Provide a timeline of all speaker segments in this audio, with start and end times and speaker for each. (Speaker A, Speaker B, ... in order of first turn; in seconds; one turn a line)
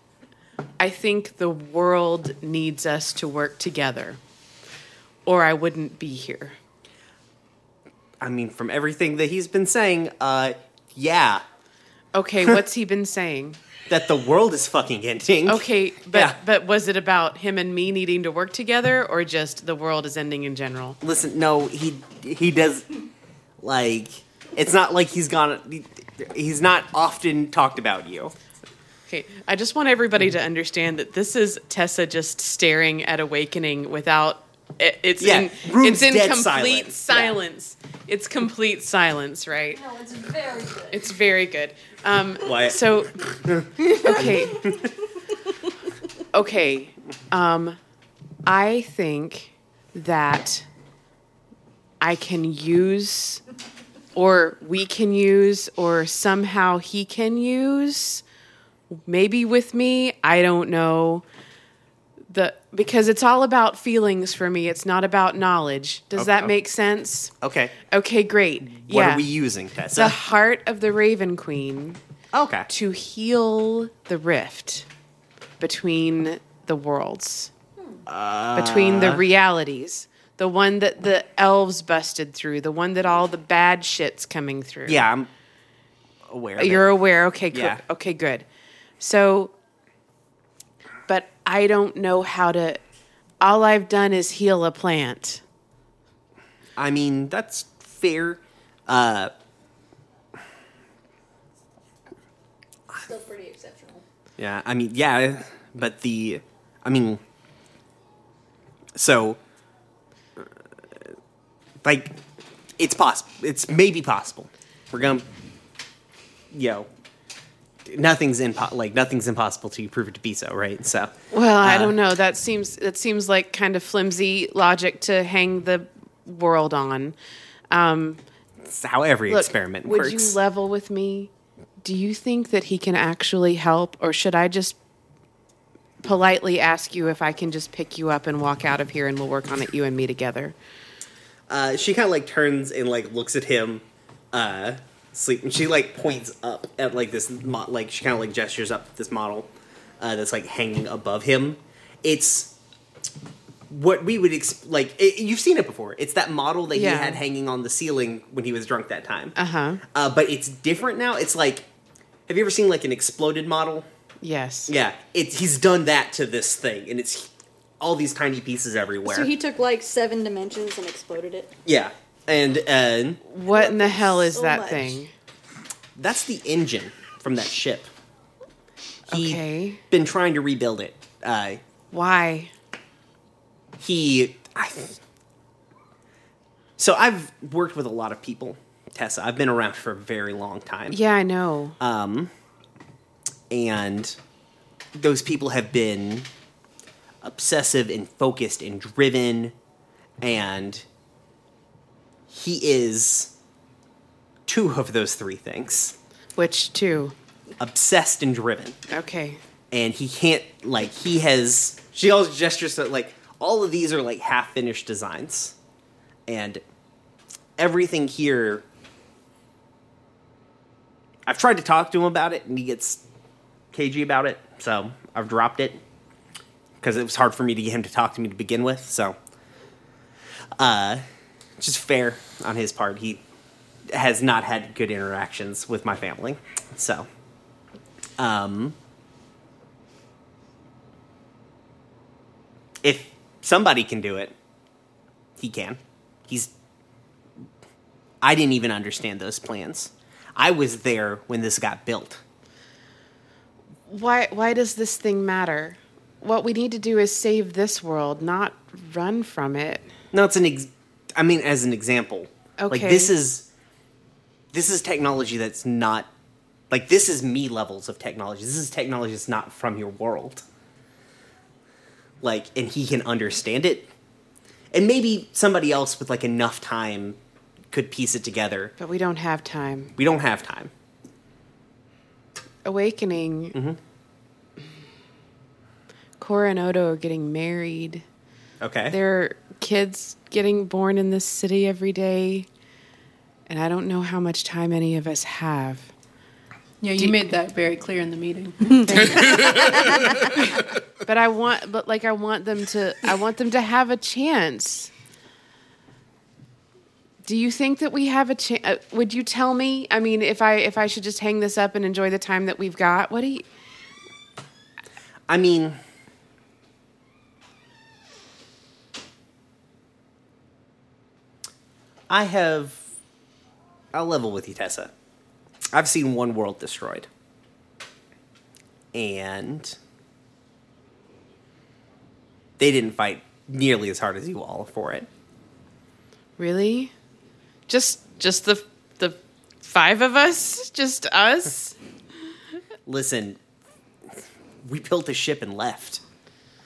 Speaker A: 0.8-4.2
Speaker A: 5.2-6.6
Speaker B: 8.2-11.4
Speaker A: 12.1-13.6
Speaker B: 13.9-16.4
Speaker A: 15.5-21.0
Speaker B: 21.0-22.9
Speaker B: 23.6-28.3
Speaker A: 29.1-39.8
Speaker B: 35.2-37.4
Speaker C: 39.7-41.1
Speaker A: 40.9-43.2
Speaker B: 42.4-44.9
Speaker A: 43.9-44.7
Speaker A: 46.3-47.8
Speaker A: 48.5-50.6
Speaker A: 52.0-53.4
Speaker A: 54.1-58.2
Speaker A: 58.9-61.2
Speaker A: 62.3-67.3
Speaker B: 66.2-66.5
Speaker B: 67.4-67.8
Speaker A: 67.9-69.3
Speaker B: 68.7-70.2
Speaker A: 70.0-72.0
Speaker B: 72.3-72.7
Speaker A: 72.7-74.9
Speaker A: 75.6-77.5
Speaker B: 78.1-79.2
Speaker A: 78.6-85.1
Speaker B: 84.9-85.3
Speaker B: 86.3-86.9
Speaker A: 86.6-88.5
Speaker B: 87.5-87.8
Speaker A: 89.0-89.5
Speaker A: 91.1-92.8
Speaker A: 93.4-95.4
Speaker B: 96.8-99.3
Speaker C: 103.0-104.0
Speaker B: 104.4-107.2
Speaker B: 109.0-109.4
Speaker B: 111.8-112.2
Speaker B: 112.8-115.3
Speaker B: 116.5-116.9
Speaker B: 117.9-122.0
Speaker A: 121.3-127.2
Speaker A: 127.7-128.2
Speaker B: 128.6-130.4
Speaker A: 129.3-134.8
Speaker A: 136.0-140.6
Speaker B: 141.5-152.5
Speaker B: 153.7-159.4
Speaker A: 156.7-157.2
Speaker A: 159.3-159.8
Speaker B: 159.9-161.7
Speaker B: 162.3-163.9
Speaker A: 164.2-164.7
Speaker B: 164.7-169.3
Speaker C: 169.1-171.5
Speaker B: 171.7-173.2
Speaker A: 173.2-175.1
Speaker C: 173.5-175.0
Speaker B: 176.0-177.9
Speaker A: 179.1-179.8
Speaker B: 179.1-181.6
Speaker A: 181.9-182.5
Speaker B: 183.8-185.0
Speaker B: 186.8-191.0
Speaker A: 190.9-191.8
Speaker B: 191.8-192.3
Speaker B: 193.5-194.2
Speaker B: 194.9-196.3
Speaker B: 197.2-199.6
Speaker B: 200.2-200.8
Speaker B: 202.3-203.3
Speaker B: 204.5-206.0
Speaker A: 206.4-207.2
Speaker B: 207.6-208.8
Speaker A: 208.9-209.4
Speaker B: 209.7-215.6
Speaker B: 216.3-216.6
Speaker B: 217.6-218.6
Speaker B: 221.3-223.0
Speaker B: 223.7-225.8
Speaker B: 226.8-229.2
Speaker B: 230.6-231.0
Speaker B: 231.6-233.2
Speaker B: 233.9-237.1
Speaker B: 238.2-238.8
Speaker B: 242.8-244.3
Speaker B: 245.4-246.5
Speaker B: 248.2-252.2
Speaker A: 253.9-259.9
Speaker B: 260.1-263.5
Speaker A: 262.6-263.1
Speaker B: 264.5-266.1
Speaker B: 266.7-270.4
Speaker B: 272.2-273.9
Speaker B: 274.7-277.2
Speaker B: 277.7-278.8
Speaker A: 278.8-279.9
Speaker B: 280.0-280.7
Speaker A: 282.6-283.6
Speaker B: 283.5-283.8
Speaker A: 286.2-288.0
Speaker B: 288.6-289.0
Speaker A: 288.9-292.5
Speaker A: 293.5-295.9
Speaker D: 296.8-299.5
Speaker A: 298.8-300.6
Speaker A: 301.1-304.9
Speaker A: 307.2-313.5
Speaker B: 315.3-315.8
Speaker B: 322.1-322.8
Speaker B: 323.9-324.9
Speaker B: 325.7-327.1
Speaker B: 328.9-329.8
Speaker B: 332.6-335.1
Speaker A: 336.4-336.9
Speaker A: 337.7-341.8
Speaker B: 342.9-343.4
Speaker B: 344.6-346.0